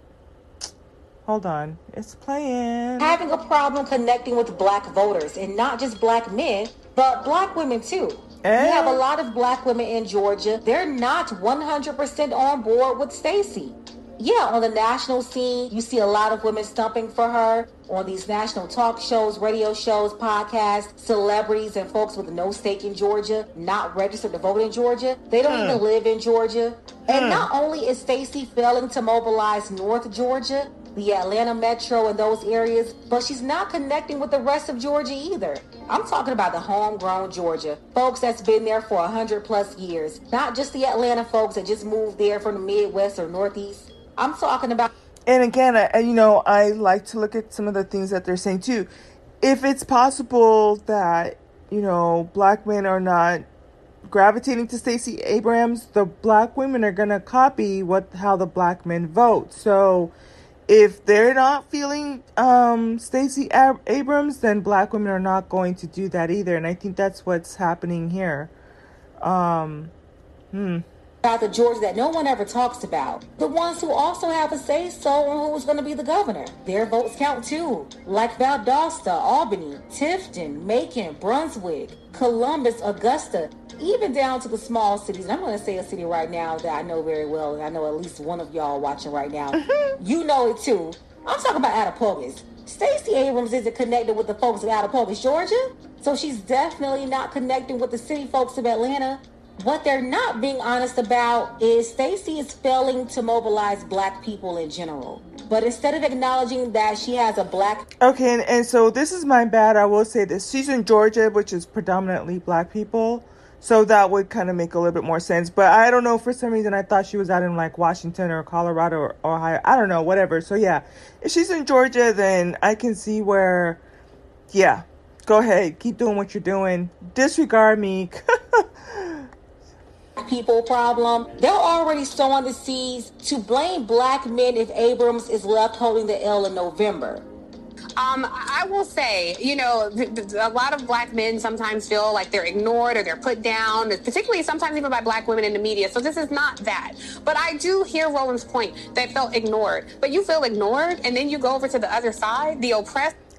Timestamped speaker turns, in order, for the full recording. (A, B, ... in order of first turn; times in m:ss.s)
0:01.2-0:03.2 A
0:03.0-0:44.9 B
0:08.4-0:09.0 A
0:25.4-0:25.8 A
0:27.1-0:27.5 A
0:45.3-0:48.9 A
0:49.4-0:53.4 A
0:54.0-1:00.1 A
1:00.7-1:08.5 A
1:09.2-1:09.9 A
1:10.5-1:10.8 A
1:11.2-1:47.8 B
1:29.6-1:29.9 A
1:48.0-2:03.8 A
2:04.5-2:09.2 A
2:10.2-2:17.3 B
2:18.0-2:33.1 C